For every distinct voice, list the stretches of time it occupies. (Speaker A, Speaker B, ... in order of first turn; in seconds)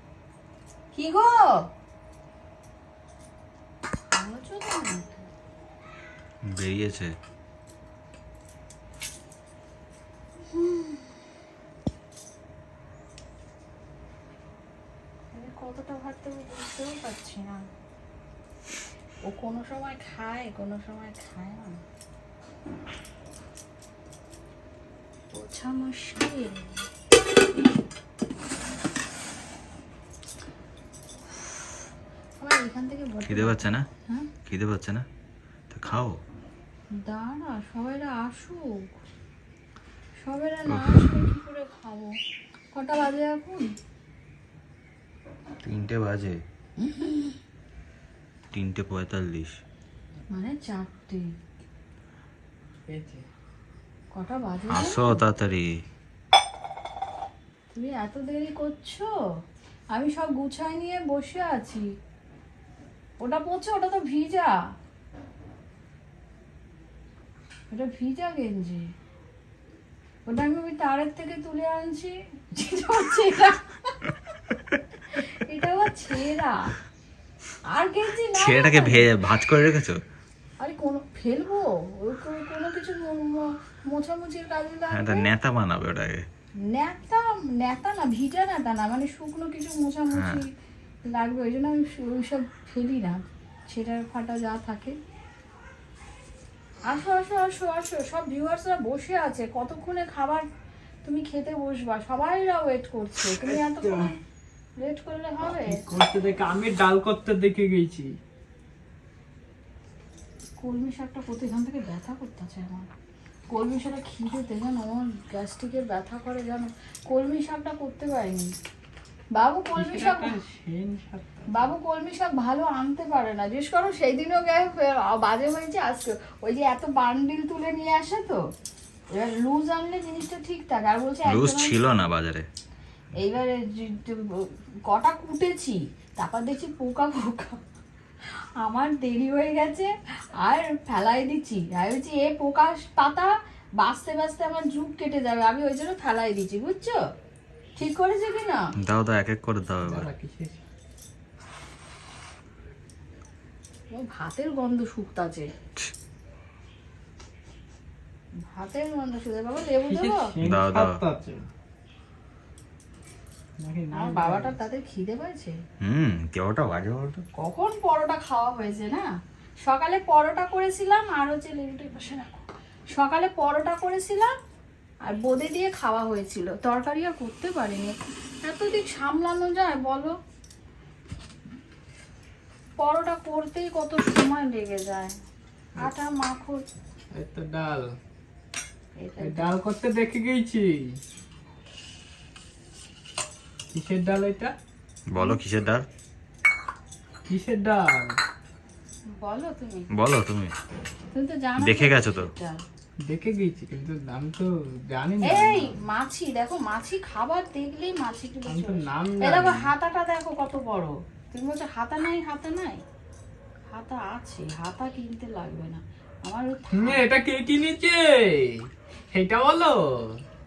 Speaker A: 0.9-1.6, 4.1-5.3, 10.5-11.1, 15.3-17.6, 19.2-21.8, 25.3-26.9, 32.4-34.3, 36.9-38.9, 40.2-42.2, 42.7-43.6, 46.8-47.4, 50.3-51.3, 54.1-55.2, 57.7-59.1, 60.0-61.9, 63.2-64.5, 67.7-68.9, 70.3-74.2, 75.1-76.8, 77.7-79.1, 80.6-85.3, 86.7-90.5, 91.0-95.0, 96.9-100.5, 101.0-104.2, 104.8-105.8, 110.6-112.9, 113.5-118.5, 119.3-120.3, 121.5-128.4, 129.1-131.8, 133.2-137.6, 138.6-147.0, 147.8-148.6, 153.9-155.5, 158.5-160.3, 163.9-165.6, 167.4-169.1, 169.6-174.3, 175.1-180.1, 182.8-185.2, 185.8-186.7, 189.0-189.6, 199.2-199.9, 201.1-202.6, 205.2-212.8, 213.7-217.0
Speaker B: 6.5-7.2, 33.3-33.9, 34.5-35.1, 35.7-36.2, 40.7-41.2, 45.6-46.4, 48.5-49.5, 54.7-55.7, 78.4-80.0, 84.9-86.3, 90.1-90.4, 131.2-132.5, 148.8-150.1, 160.4-161.0, 165.8-167.2, 195.1-195.9, 199.9-200.5, 201.6-202.3
Speaker C: 52.9-53.3, 103.3-104.1, 105.7-108.1, 119.8-121.7, 149.8-150.6, 159.9-161.5, 163.6-164.6, 187.1-187.9, 189.2-190.8, 193.7-194.5, 197.3-198.1, 203.1-205.7, 208.5-209.7, 216.8-220.2